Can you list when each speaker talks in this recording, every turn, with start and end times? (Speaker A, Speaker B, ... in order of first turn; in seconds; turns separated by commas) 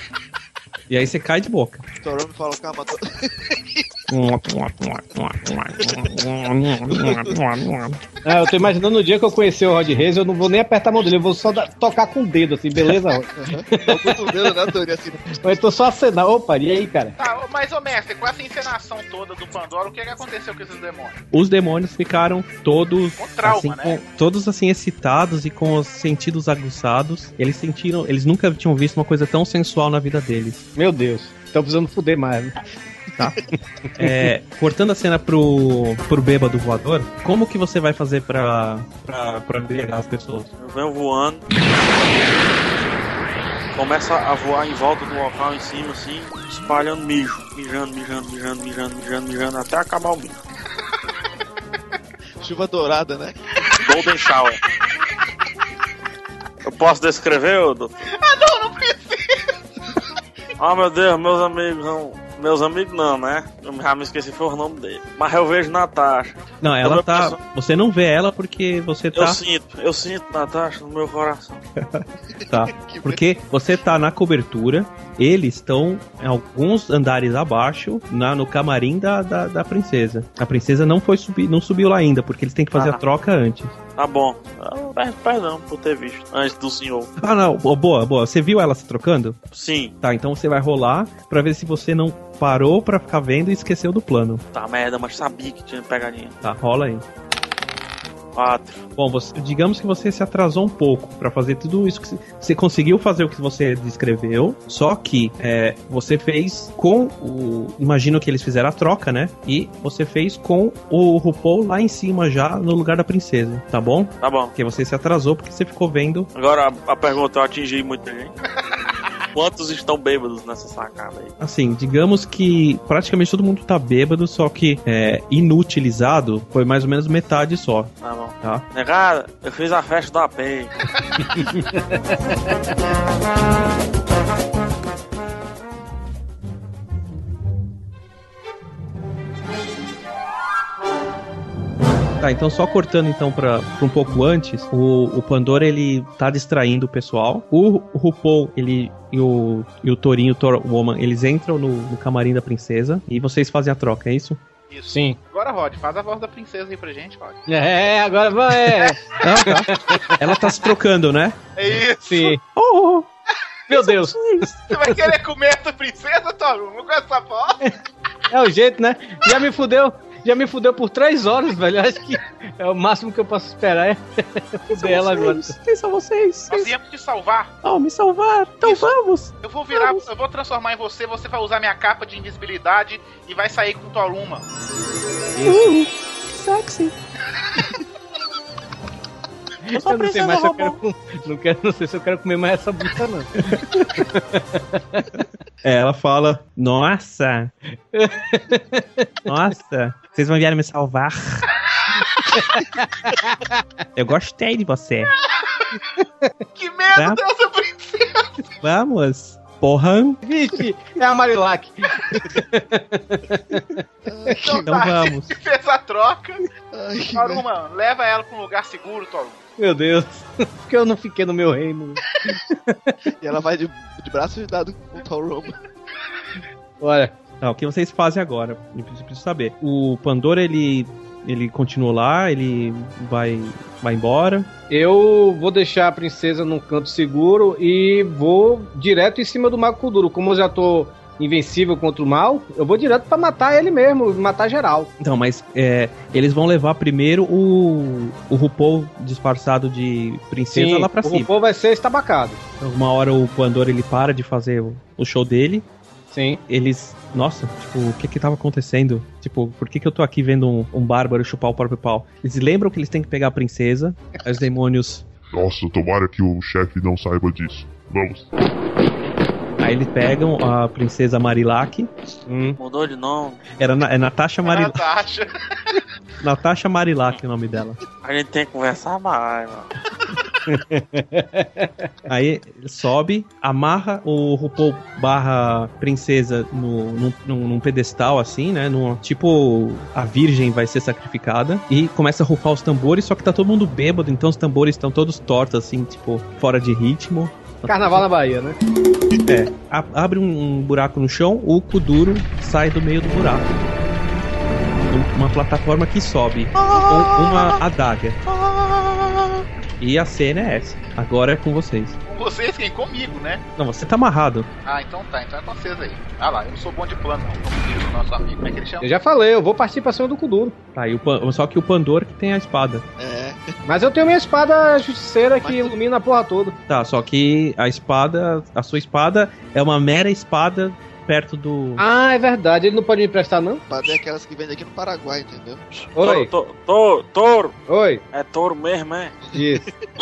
Speaker A: 0.9-1.8, Speaker B: 2.0-3.9, Speaker A: 4.1-8.0, Speaker B: 6.9-7.4, Speaker C: 8.2-14.2, Speaker B: 13.3-15.4, Speaker C: 15.3-17.1, Speaker D: 17.2-21.2, Speaker A: 21.3-30.6, Speaker D: 23.2-24.0, Speaker C: 30.8-32.6, Speaker A: 34.0-40.5, Speaker E: 40.6-41.4, Speaker E: 43.7-50.4, Speaker B: 52.4-53.4, Speaker E: 53.8-54.6, Speaker E: 56.6-57.9, Speaker D: 58.1-59.4, Speaker E: 60.6-67.4, Speaker A: 66.6-69.4, Speaker E: 69.1-71.6, Speaker A: 71.8-83.8, Speaker B: 72.4-73.2, Speaker E: 82.7-83.0, Speaker E: 84.0-87.1, Speaker A: 87.2-89.4, Speaker E: 89.5-89.9, Speaker A: 90.0-94.4, Speaker E: 94.5-96.4, Speaker A: 96.4-97.0, Speaker E: 98.3-98.9, Speaker A: 99.0-116.3, Speaker E: 114.2-114.5, Speaker E: 116.3-118.3, Speaker E: 119.3-121.3, Speaker A: 121.4-127.9, Speaker E: 128.0-130.7, Speaker C: 131.3-132.1, Speaker A: 142.2-154.4, Speaker D: 154.7-157.4, Speaker C: 154.9-155.2, Speaker C: 157.5-160.4, Speaker D: 158.6-159.0, Speaker A: 159.2-161.4, Speaker D: 161.6-162.3, Speaker C: 162.0-162.4, Speaker A: 162.6-163.1, Speaker C: 163.7-164.2, Speaker A: 164.2-164.6, Speaker D: 164.7-167.6, Speaker C: 168.3-175.6, Speaker A: 174.7-176.7, Speaker D: 176.5-177.5, Speaker A: 177.6-180.1, Speaker D: 178.6-178.9, Speaker D: 179.4-184.4, Speaker C: 185.4-185.7, Speaker A: 185.4-186.9, Speaker C: 189.7-193.3, Speaker E: 189.8-190.8, Speaker A: 193.6-193.9, Speaker C: 194.0-195.1, Speaker A: 195.6-197.5, Speaker C: 197.9-199.1, Speaker A: 199.3-201.5, Speaker C: 202.3-203.6, Speaker A: 204.0-205.1, Speaker D: 206.6-208.4, Speaker A: 208.6-210.2, Speaker C: 210.2-213.8, Speaker B: 214.1-214.9, Speaker D: 214.4-216.4, Speaker A: 214.7-215.3, Speaker B: 216.7-217.4, Speaker D: 217.1-219.4, Speaker C: 219.6-223.0, Speaker B: 223.2-225.6, Speaker C: 226.8-227.2, Speaker A: 227.4-234.5, Speaker C: 234.7-244.9, Speaker A: 245.0-251.3, Speaker C: 250.5-252.4, Speaker A: 252.6-255.7, Speaker C: 256.1-256.4, Speaker A: 256.5-265.1, Speaker F: 265.3-268.3, Speaker A: 269.6-271.9, Speaker C: 272.3-272.6, Speaker E: 272.6-273.4, Speaker A: 273.6-274.8, Speaker D: 274.4-275.3, Speaker A: 276.2-277.8, Speaker E: 278.0-279.7, Speaker C: 280.5-281.9, Speaker A: 282.1-298.0, Speaker C: 297.7-298.6, Speaker A: 299.3-303.5, Speaker A: 304.9-308.2, Speaker B: 306.6-307.6, Speaker B: 308.4-309.0, Speaker A: 309.8-312.0, Speaker D: 312.1-313.4, Speaker A: 313.6-314.5, Speaker D: 314.6-318.9, Speaker C: 318.8-320.6, Speaker A: 320.8-322.8, Speaker B: 323.0-323.4, Speaker C: 323.7-326.6, Speaker B: 325.4-325.7, Speaker A: 326.7-331.8, Speaker C: 331.8-333.6, Speaker B: 333.7-335.6, Speaker E: 335.7-337.6, Speaker C: 336.0-336.3, Speaker C: 337.7-338.0, Speaker E: 338.1-339.2, Speaker B: 339.3-339.8, Speaker C: 339.4-339.7